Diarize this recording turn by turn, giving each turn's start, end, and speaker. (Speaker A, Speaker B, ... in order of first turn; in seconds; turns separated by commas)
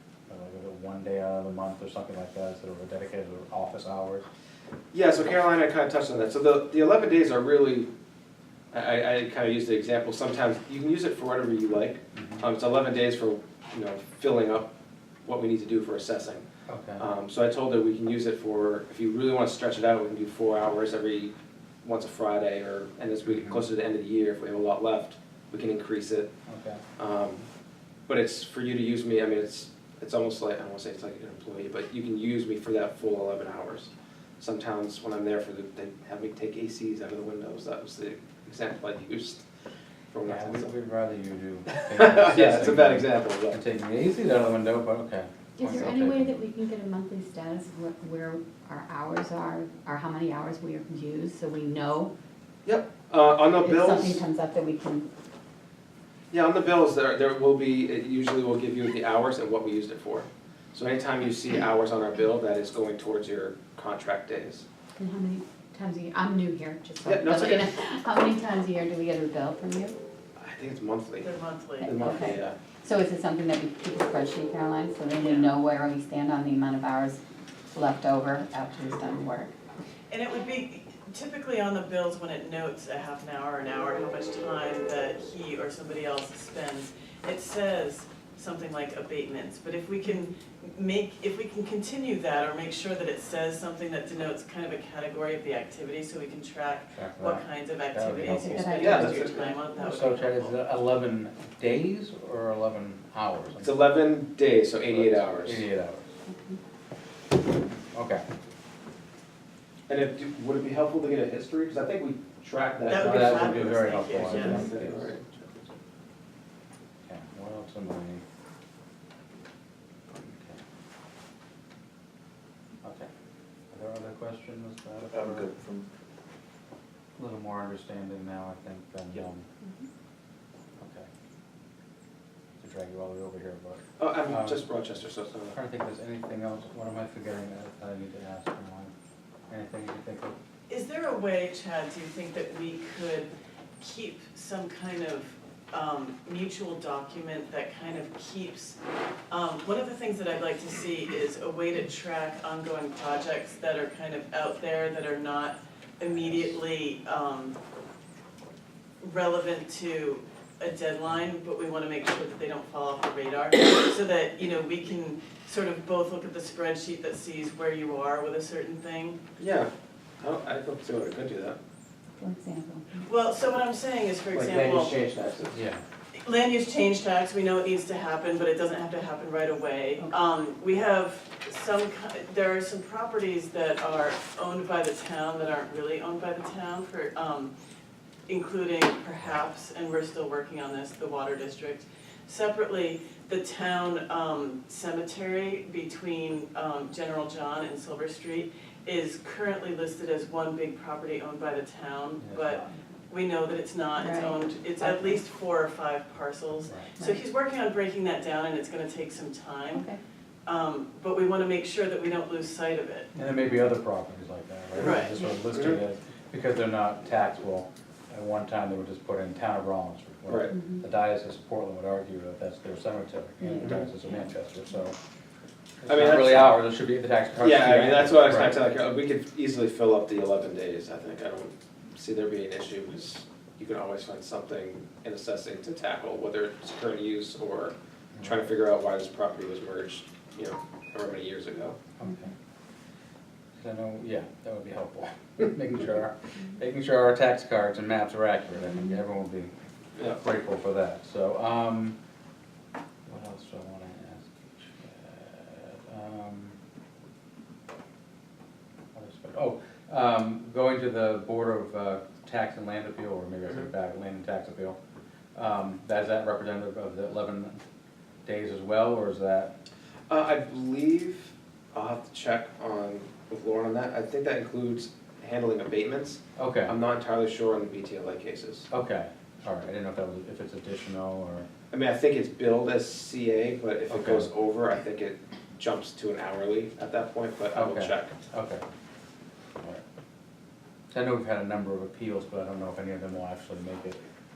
Speaker A: 0.3-4.2, Speaker B: 4.9-7.9, Speaker B: 8.7-14.7, Speaker A: 12.1-12.4, Speaker B: 15.2-16.5, Speaker A: 16.7-17.0, Speaker B: 17.0-21.3, Speaker B: 21.8-26.3, Speaker A: 23.3-23.6, Speaker A: 26.5-26.8, Speaker B: 27.0-27.5, Speaker B: 28.1-39.4, Speaker B: 40.1-40.7, Speaker A: 40.2-46.4, Speaker B: 41.9-43.6, Speaker C: 45.6-52.1, Speaker B: 52.6-54.2, Speaker C: 53.6-55.1, Speaker B: 56.3-64.6, Speaker C: 65.0-70.0, Speaker B: 67.0-67.7, Speaker B: 70.4-72.6, Speaker D: 71.2-72.0, Speaker C: 71.9-79.6, Speaker D: 75.1-75.5, Speaker D: 80.1-100.6, Speaker C: 90.0-90.3, Speaker A: 97.0-99.0, Speaker C: 98.2-100.0, Speaker B: 98.8-99.5, Speaker A: 99.8-103.7, Speaker B: 103.6-105.6, Speaker A: 104.9-106.1, Speaker C: 106.3-106.6, Speaker A: 107.9-108.2, Speaker B: 109.9-115.5, Speaker D: 112.9-114.7, Speaker A: 113.0-115.1, Speaker A: 117.0-118.2, Speaker A: 120.2-120.6, Speaker A: 122.8-123.1, Speaker A: 123.7-125.5, Speaker B: 125.1-125.8, Speaker A: 127.2-129.5, Speaker C: 129.6-129.9, Speaker A: 130.8-131.1, Speaker A: 132.6-134.6, Speaker B: 134.0-135.6, Speaker A: 135.5-138.9, Speaker A: 139.5-140.4, Speaker D: 140.7-148.8, Speaker D: 149.3-157.6, Speaker A: 156.1-156.4, Speaker D: 159.0-169.2, Speaker B: 169.4-169.7, Speaker B: 170.2-171.6, Speaker C: 172.2-173.1, Speaker D: 173.0-175.0, Speaker B: 174.3-175.6, Speaker A: 175.5-175.8, Speaker D: 176.2-187.5, Speaker D: 188.3-209.9, Speaker A: 202.2-202.8, Speaker C: 204.0-205.2, Speaker C: 209.7-210.0, Speaker D: 210.5-213.1, Speaker A: 213.2-225.0, Speaker B: 214.8-215.8, Speaker D: 214.8-215.2, Speaker B: 220.3-220.5, Speaker C: 220.5-220.8, Speaker C: 223.4-223.7, Speaker B: 223.6-223.9, Speaker A: 225.8-228.6, Speaker B: 225.9-226.6, Speaker B: 227.4-241.8, Speaker A: 238.2-238.5, Speaker A: 242.0-242.3, Speaker A: 243.6-249.5, Speaker A: 250.1-252.0, Speaker A: 253.1-256.6, Speaker A: 258.9-264.8, Speaker A: 265.4-267.6, Speaker A: 268.2-269.5, Speaker B: 270.1-278.7, Speaker A: 276.4-276.7, Speaker A: 278.7-281.5, Speaker B: 281.7-288.2, Speaker A: 283.9-284.3, Speaker A: 287.5-288.6, Speaker A: 290.9-294.0